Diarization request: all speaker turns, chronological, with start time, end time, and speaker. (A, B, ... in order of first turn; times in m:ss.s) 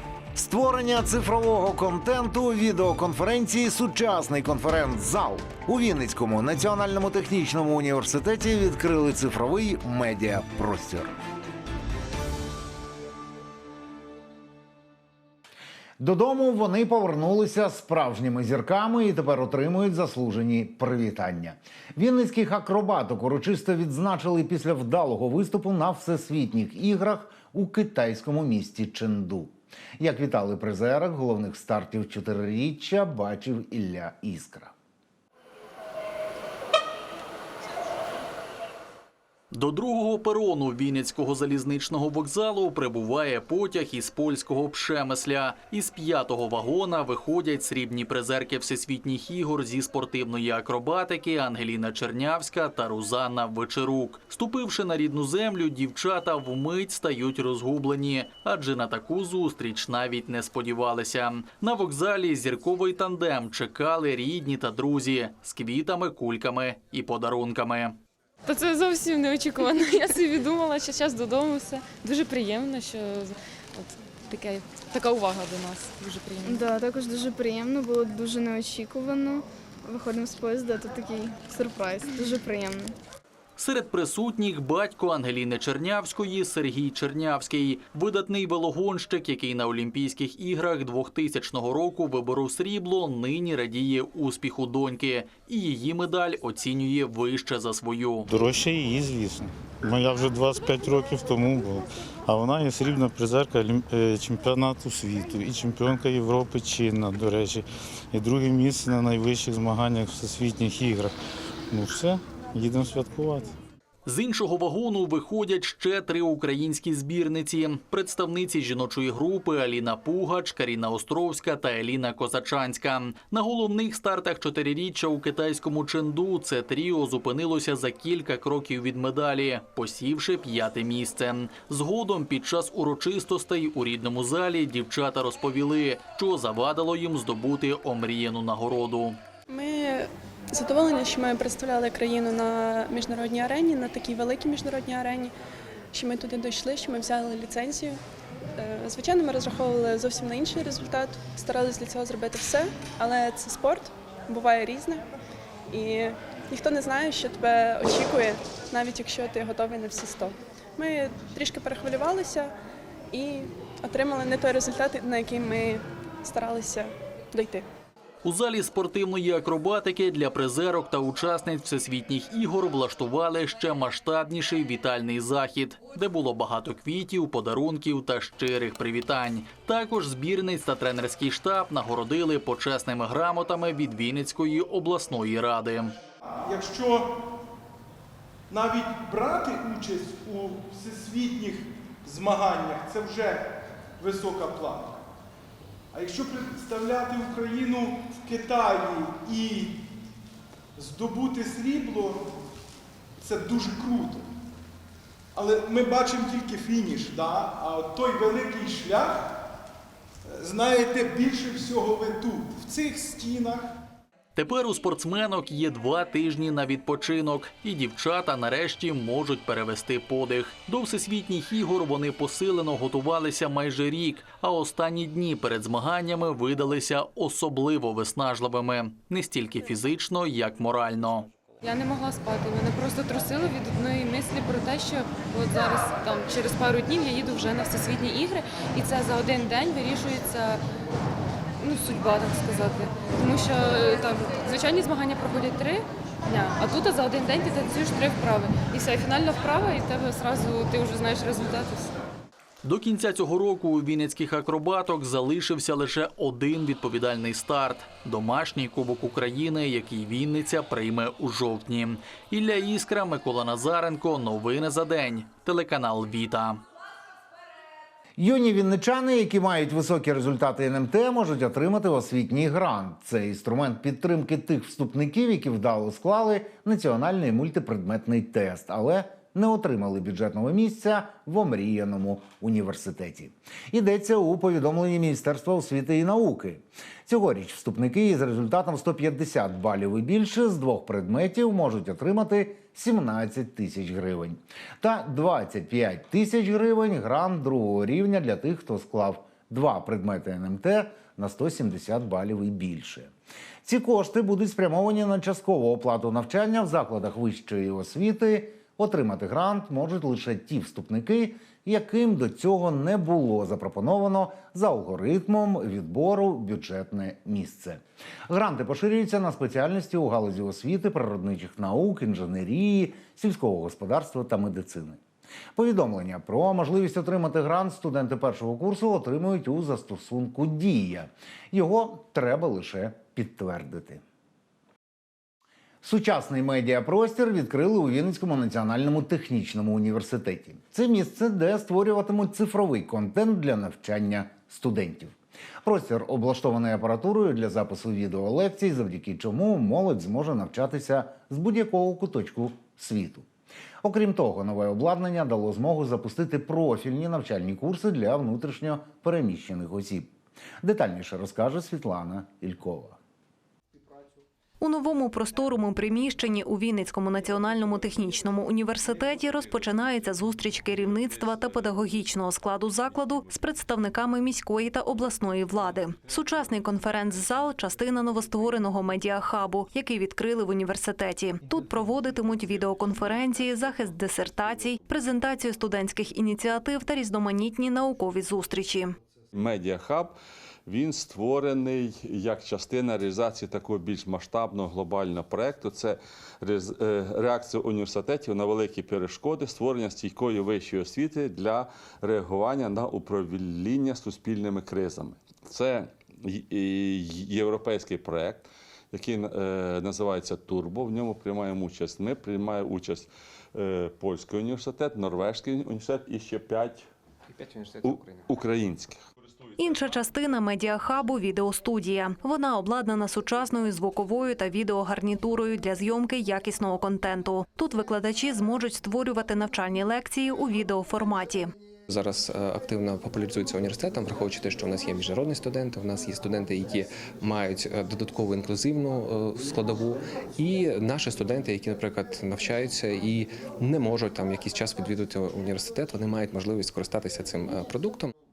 0:00.3-0:11.2 A
0:16.0-0:34.7 A
0:39.5-1:08.0 B
1:08.4-1:16.6 C
1:16.4-1:22.9 D
1:23.6-1:38.3 B
1:38.3-1:51.1 E
1:51.7-1:53.5 E
1:54.0-2:19.2 B
2:19.5-2:25.3 F
2:25.9-2:28.0 F
2:28.6-2:35.0 F
2:35.7-2:42.5 F
2:43.1-2:47.6 F
2:48.2-3:05.9 B
3:06.4-3:07.2 G
3:08.5-3:15.0 G
3:15.9-3:19.8 G
3:20.8-3:22.4 G
3:23.2-3:24.3 G
3:25.3-3:29.4 G
3:30.4-3:33.8 G
3:34.3-3:51.3 B
3:51.6-4:00.6 C
4:01.6-4:11.9 C
4:12.6-4:26.6 B
4:28.2-5:03.1 A
5:03.6-5:25.0 A
5:25.5-5:34.0 A
5:35.8-5:53.3 A
5:53.8-6:03.0 A
6:04.6-6:28.9 H
6:29.3-6:30.1 I
6:30.6-6:56.8 I
6:57.3-6:58.2 J
6:57.8-6:59.0 I
6:59.6-7:11.5 H
7:11.9-7:28.1 J